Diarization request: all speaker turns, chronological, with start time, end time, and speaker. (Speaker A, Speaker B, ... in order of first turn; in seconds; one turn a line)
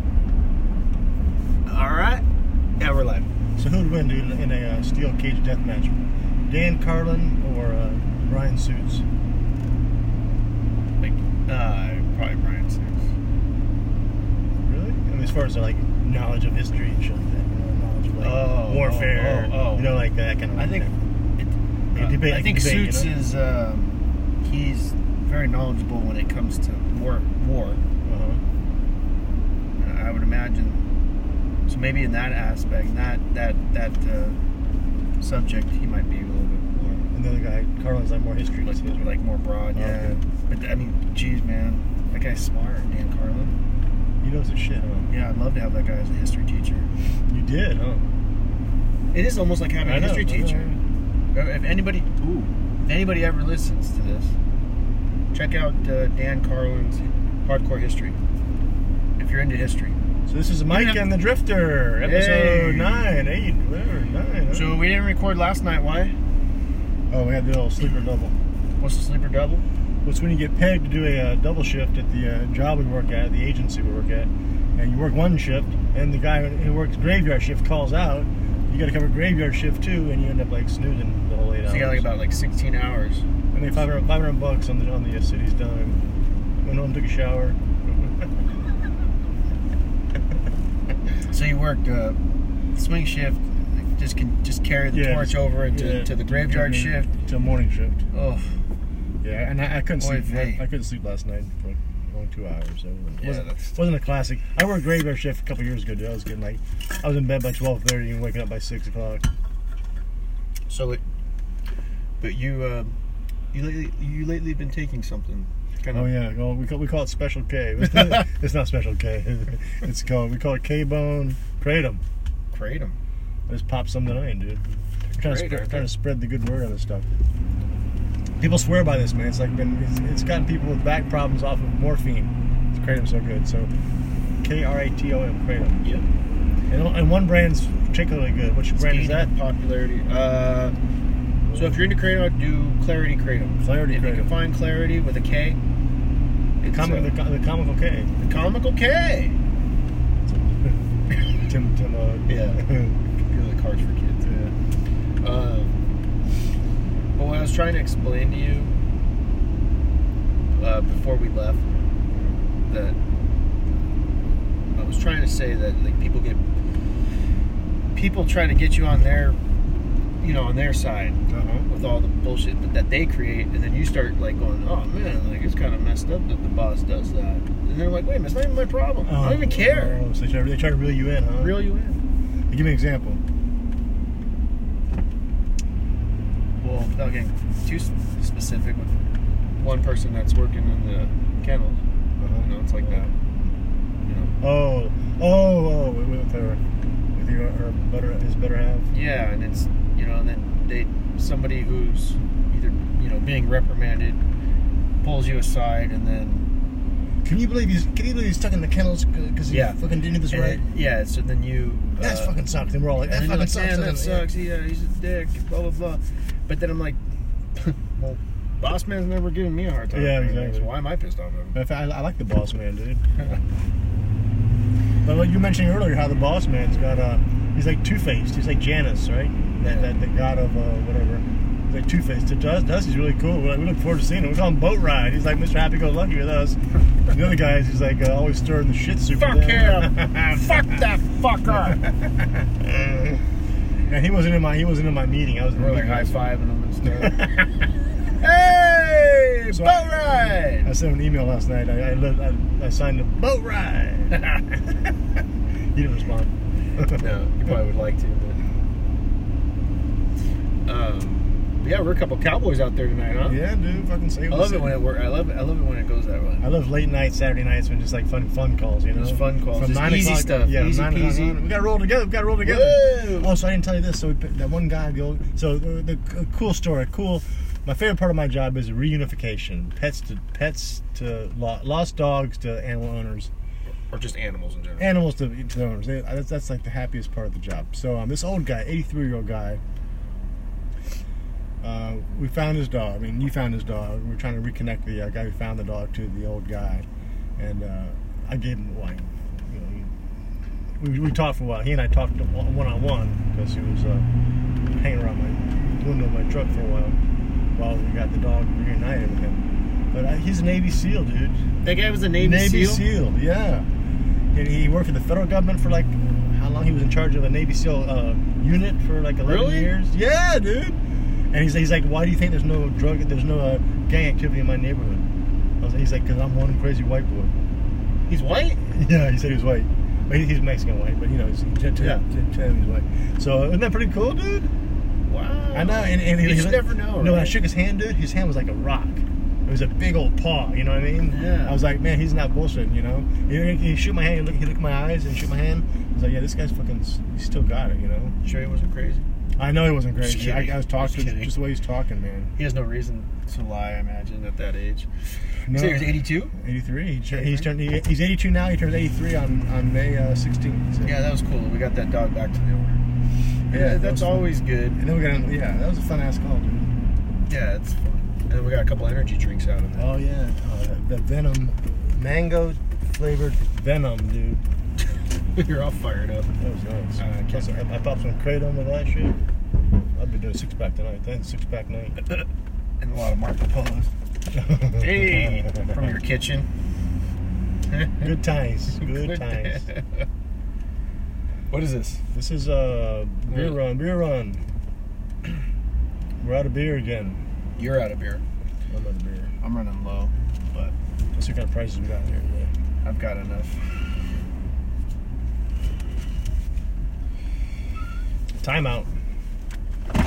Speaker A: 1.7-2.2
Speaker A: 2.8-3.3
Speaker B: 3.6-6.0
Speaker B: 6.5-9.1
Speaker A: 11.0-13.1
Speaker B: 14.6-21.0
Speaker A: 18.2-20.0
Speaker A: 20.6-27.8
Speaker B: 21.9-23.1
Speaker B: 28.1-28.4
Speaker A: 29.8-30.8
Speaker A: 31.7-34.4
Speaker A: 35.2-37.0
Speaker B: 37.1-39.1
Speaker A: 38.6-43.5
Speaker B: 39.7-40.2
Speaker B: 44.2-45.1
Speaker A: 45.1-46.9
Speaker B: 47.3-48.0
Speaker A: 49.1-50.7
Speaker B: 49.8-50.8
Speaker A: 51.3-54.4
Speaker A: 55.3-58.2
Speaker A: 59.2-60.0
Speaker B: 60.3-64.8
Speaker A: 60.7-61.1
Speaker A: 62.0-63.1
Speaker A: 64.5-66.2
Speaker B: 67.1-68.3
Speaker A: 68.8-69.7
Speaker B: 70.0-82.1
Speaker A: 81.7-83.2
Speaker B: 83.5-86.0
Speaker B: 86.6-88.3
Speaker A: 91.3-92.2
Speaker A: 92.8-97.1
Speaker B: 94.9-98.0
Speaker A: 98.1-98.5
Speaker B: 99.2-109.3
Speaker A: 100.0-100.6
Speaker A: 103.2-103.8
Speaker A: 110.7-111.0
Speaker A: 112.2-113.0
Speaker A: 113.5-116.1
Speaker B: 115.9-122.0
Speaker A: 122.5-123.0
Speaker B: 123.5-127.1
Speaker A: 125.1-125.9
Speaker B: 128.4-133.7
Speaker B: 134.4-135.9
Speaker B: 136.7-139.3
Speaker A: 138.8-140.8
Speaker B: 141.5-141.8
Speaker A: 141.6-145.6
Speaker B: 143.6-144.4
Speaker A: 146.6-147.1
Speaker B: 146.7-148.1
Speaker A: 148.2-149.4
Speaker B: 150.2-153.0
Speaker A: 152.3-152.6
Speaker A: 153.2-154.3
Speaker B: 154.2-154.5
Speaker A: 155.2-155.8
Speaker A: 157.2-158.8
Speaker A: 160.5-161.7
Speaker A: 162.6-163.0
Speaker A: 164.8-166.4
Speaker A: 167.9-169.4
Speaker A: 170.2-180.0
Speaker B: 171.3-171.7
Speaker B: 179.1-181.6
Speaker A: 181.3-182.0
Speaker B: 182.5-183.2
Speaker A: 186.6-189.0
Speaker A: 189.6-191.8
Speaker B: 192.2-193.1
Speaker A: 192.4-193.1
Speaker A: 194.0-194.3
Speaker B: 194.4-196.6
Speaker B: 197.2-198.9
Speaker A: 198.9-204.2
Speaker A: 205.0-206.5
Speaker B: 207.2-210.6
Speaker A: 209.5-209.8
Speaker A: 210.3-212.4
Speaker B: 212.0-214.3
Speaker A: 213.0-217.0
Speaker A: 217.6-221.6
Speaker B: 219.9-220.7
Speaker B: 221.5-223.0
Speaker B: 225.0-240.5
Speaker A: 229.6-229.9
Speaker A: 239.2-241.8
Speaker B: 242.6-243.2
Speaker B: 243.9-246.3
Speaker A: 245.6-247.2
Speaker B: 246.9-247.5
Speaker A: 248.2-250.7
Speaker B: 249.5-254.9
Speaker B: 255.7-257.0
Speaker A: 256.9-258.4
Speaker A: 260.7-263.4
Speaker B: 263.2-264.8
Speaker A: 264.3-266.5
Speaker B: 266.4-283.3
Speaker A: 268.9-271.4
Speaker A: 272.4-273.4
Speaker A: 283.9-285.0
Speaker B: 284.8-289.6
Speaker B: 291.6-299.9
Speaker B: 300.8-304.1
Speaker B: 304.7-307.0
Speaker B: 307.6-311.4
Speaker A: 311.6-312.9
Speaker B: 312.2-313.7
Speaker B: 314.3-320.8
Speaker A: 319.2-319.7
Speaker B: 321.3-325.1
Speaker B: 325.6-327.3
Speaker A: 328.1-328.6
Speaker B: 328.6-334.5
Speaker A: 331.8-332.0
Speaker A: 335.1-337.4
Speaker B: 335.5-348.1
Speaker A: 341.1-341.6
Speaker A: 348.2-349.0
Speaker B: 349.4-352.3
Speaker A: 350.0-351.3
Speaker A: 352.4-354.9
Speaker B: 355.5-361.0
Speaker A: 355.5-356.3
Speaker A: 357.1-357.5
Speaker A: 360.8-362.8
Speaker A: 363.5-364.8
Speaker B: 363.5-366.7
Speaker A: 367.3-369.9
Speaker B: 369.8-374.4
Speaker A: 375.3-376.3
Speaker B: 376.4-379.2
Speaker A: 377.0-377.6
Speaker B: 380.0-382.0
Speaker A: 382.8-383.9
Speaker B: 384.4-385.7
Speaker A: 384.7-386.5
Speaker A: 387.7-388.1
Speaker B: 388.0-389.7
Speaker A: 388.8-390.0
Speaker A: 391.5-392.0
Speaker B: 392.1-394.4
Speaker A: 393.3-393.6
Speaker B: 396.2-397.2
Speaker A: 397.6-398.2
Speaker B: 398.7-399.3
Speaker A: 399.4-400.8
Speaker B: 401.1-402.5
Speaker A: 402.8-403.6
Speaker B: 408.4-408.9